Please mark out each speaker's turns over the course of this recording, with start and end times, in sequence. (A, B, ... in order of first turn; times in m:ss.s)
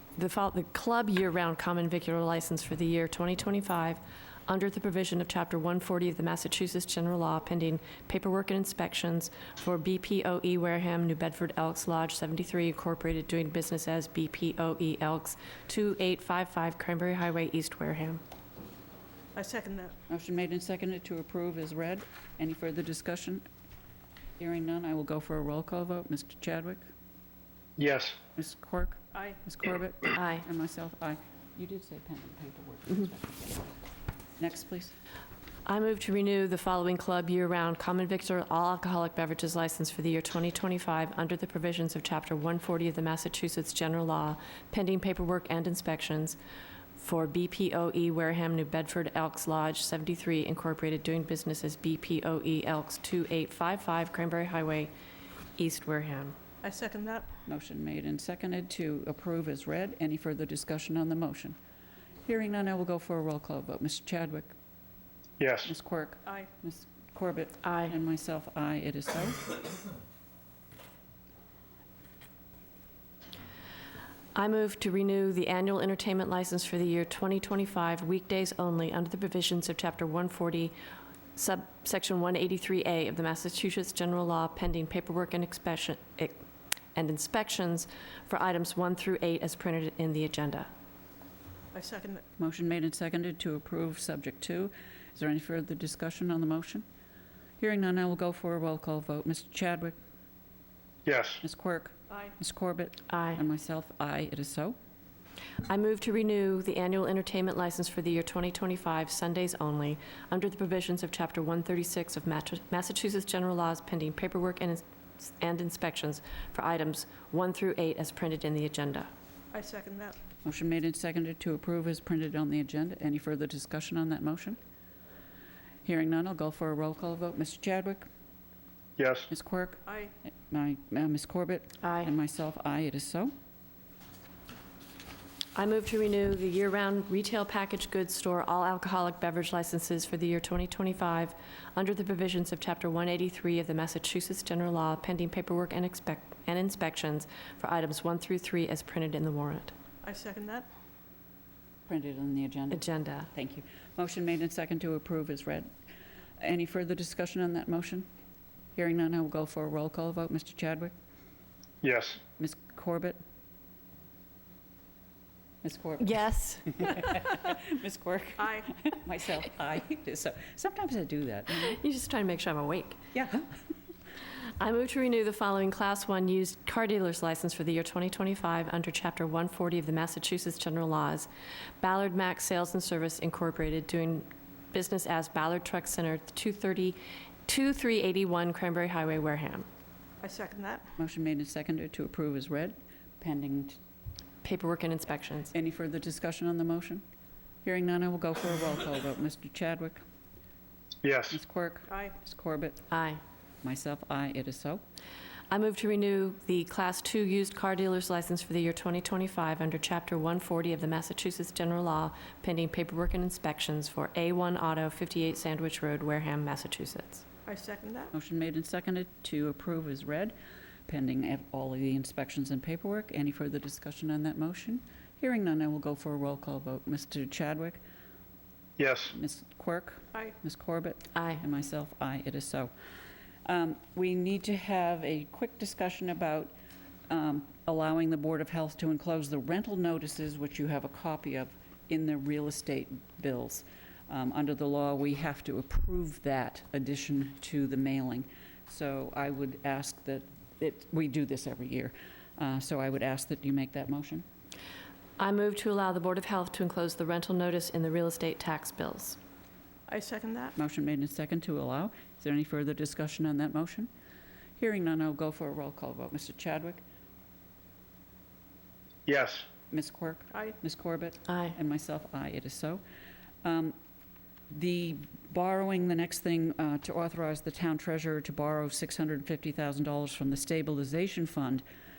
0:00.2-0:18.2 A
0:19.4-0:20.0 B
0:20.1-0:23.4 C
0:24.4-0:26.9 C
0:27.8-0:28.2 D
0:28.4-0:33.7 C
0:30.2-0:30.5 A
0:34.4-0:34.9 C
0:35.7-0:46.4 A
0:47.0-0:54.9 A
0:55.6-0:56.4 A
0:56.6-0:57.3 B
0:57.5-1:01.6 C
1:02.3-1:04.5 C
1:05.4-1:05.7 D
1:05.7-1:09.6 C
1:07.6-1:08.0 A
1:14.4-1:20.7 A
1:21.4-1:26.4 A
1:27.0-1:30.7 A
1:31.7-1:32.2 B
1:32.4-1:36.8 C
1:37.6-1:40.0 C
1:41.0-1:41.4 D
1:41.4-1:44.8 C
1:43.1-1:43.4 A
1:45.6-1:59.1 A
1:59.5-2:00.2 B
2:00.4-2:04.6 C
2:05.8-2:08.1 C
2:09.0-2:09.3 D
2:09.3-2:13.3 C
2:11.8-2:12.1 A
2:15.6-2:29.7 A
2:30.0-2:30.7 B
2:31.9-2:35.7 C
2:32.7-2:33.3 A
2:36.4-2:38.1 C
2:38.8-2:40.9 C
2:41.8-2:42.2 D
2:42.4-2:43.2 C
2:45.6-2:46.3 C
2:46.0-2:47.0 A
2:46.8-2:51.8 C
2:48.4-2:48.7 B
2:51.7-2:53.0 A
2:53.1-2:53.5 C
2:54.6-3:01.3 A
3:01.8-3:09.7 A
3:10.2-3:10.9 B
3:11.0-3:13.8 C
3:14.4-3:15.5 A
3:15.5-3:17.0 C
3:17.6-3:20.0 C
3:21.0-3:21.4 D
3:21.3-3:22.8 C
3:22.9-3:23.2 A
3:23.6-3:24.8 C
3:25.5-3:37.2 A
3:37.5-3:38.1 B
3:38.1-3:40.3 C
3:40.9-3:47.8 C
3:48.8-3:49.1 D
3:49.1-3:52.7 C
3:51.2-3:51.4 A
3:53.4-3:56.5 C
3:57.1-4:14.2 C
4:15.2-4:19.2 A
4:19.9-4:20.6 B
4:20.6-4:23.9 C
4:24.6-4:26.8 C
4:29.1-4:29.5 D
4:29.7-4:32.8 C
4:31.3-4:31.6 A
4:33.4-4:33.8 C
4:34.5-4:41.6 C